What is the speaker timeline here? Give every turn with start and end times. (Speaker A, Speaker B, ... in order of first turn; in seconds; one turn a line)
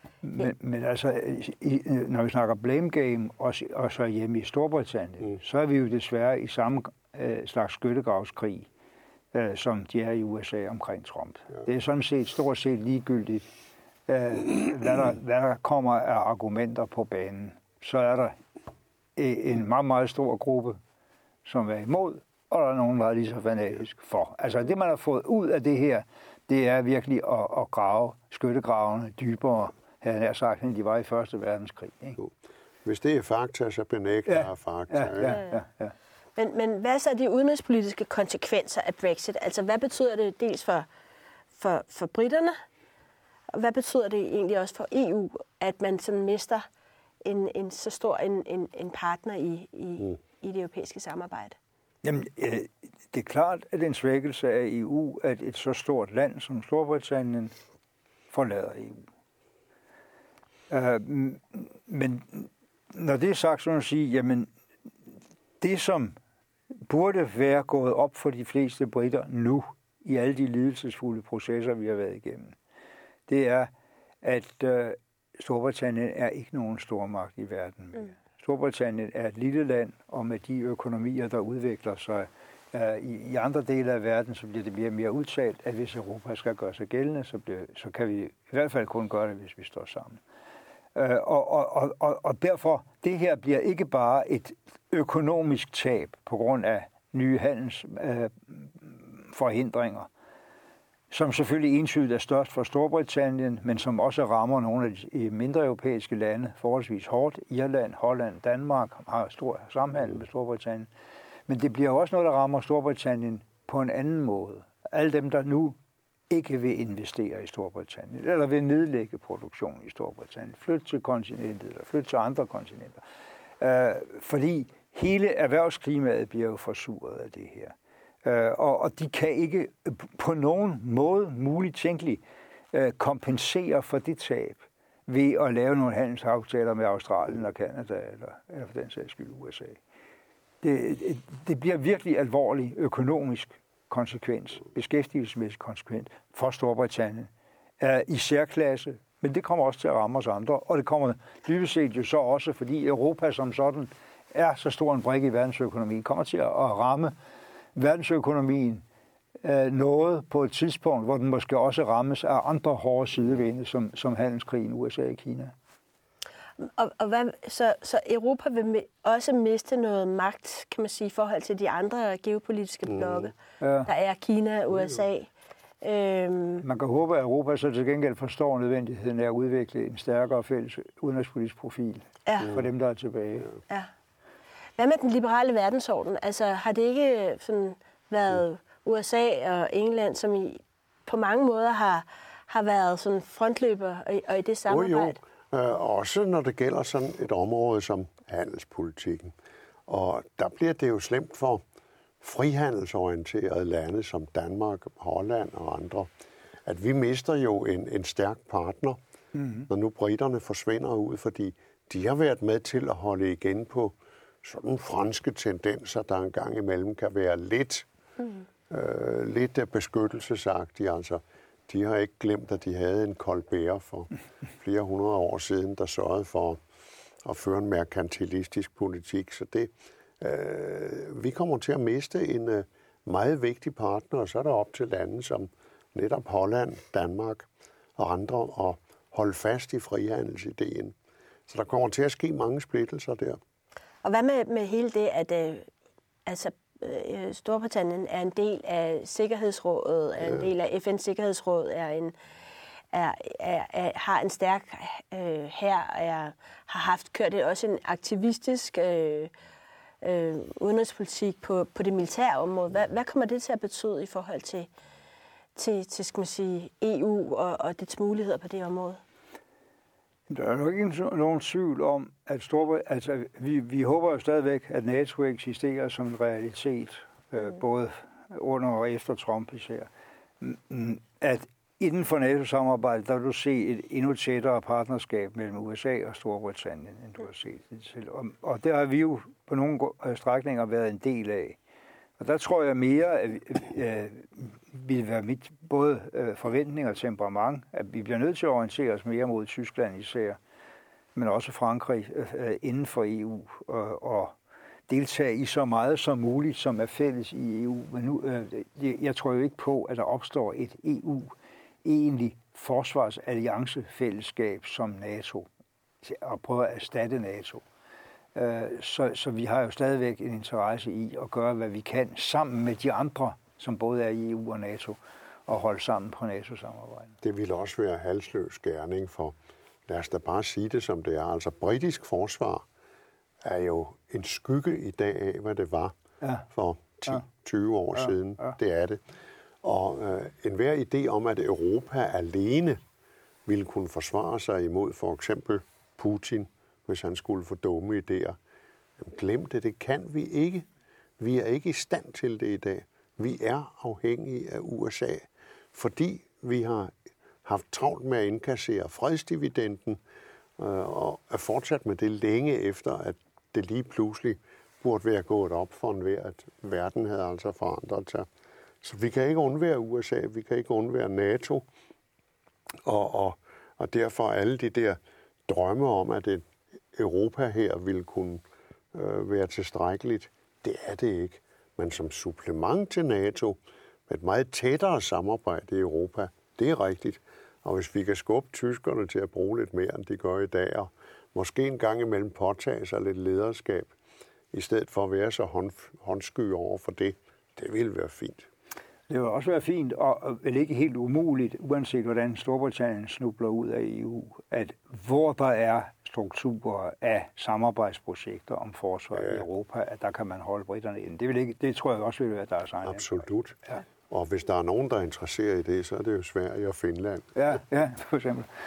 Speaker A: 0.2-8.7
Speaker A: 9.3-13.5
Speaker A: 14.1-18.4
Speaker A: 19.2-20.8
Speaker A: 21.4-32.2
Speaker B: 32.8-35.4
Speaker A: 34.3-35.9
Speaker C: 35.2-35.5
Speaker C: 36.4-40.9
Speaker C: 41.5-42.5
Speaker C: 43.5-46.7
Speaker C: 47.2-51.6
Speaker A: 52.0-57.5
Speaker A: 58.3-59.0
Speaker A: 60.7-64.5
Speaker A: 65.6-66.2
Speaker A: 66.9-72.6
Speaker A: 73.3-90.2
Speaker A: 90.9-100.1
Speaker A: 101.1-110.9
Speaker A: 111.5-115.8
Speaker A: 116.3-123.0
Speaker A: 123.6-139.8
Speaker A: 140.6-157.1
Speaker A: 157.7-158.8
Speaker A: 159.4-165.5
Speaker C: 166.6-173.3
Speaker B: 172.9-173.3
Speaker A: 173.6-173.9
Speaker C: 173.8-175.3
Speaker C: 175.8-176.6
Speaker A: 176.6-183.5
Speaker C: 182.2-182.5
Speaker C: 184.8-195.2
Speaker B: 194.7-199.3
Speaker B: 199.9-201.6
Speaker B: 202.2-206.1
Speaker B: 206.7-209.0
Speaker A: 209.3-209.7
Speaker B: 209.7-217.9
Speaker B: 218.7-226.6
Speaker B: 227.2-240.9
Speaker B: 241.5-243.4
Speaker C: 244.0-245.7
Speaker C: 246.2-252.1
Speaker C: 252.9-259.3
Speaker C: 260.0-264.7
Speaker C: 265.5-269.0
Speaker A: 270.3-279.9
Speaker A: 280.4-291.6
Speaker A: 292.2-300.4
Speaker A: 301.1-304.3
Speaker A: 304.9-311.3
Speaker A: 311.8-315.5
Speaker A: 316.0-317.6
Speaker A: 318.3-327.2
Speaker B: 327.2-329.4
Speaker B: 329.9-332.6
Speaker B: 333.4-335.9
Speaker B: 336.5-339.0
Speaker B: 339.6-342.8
Speaker B: 343.4-348.4
Speaker B: 349.0-350.6
Speaker B: 351.2-360.0
Speaker B: 360.6-368.3
Speaker B: 368.8-371.6
Speaker B: 372.8-393.9
Speaker B: 394.5-398.5
Speaker A: 399.1-413.2
Speaker B: 412.8-417.3
Speaker A: 417.3-418.5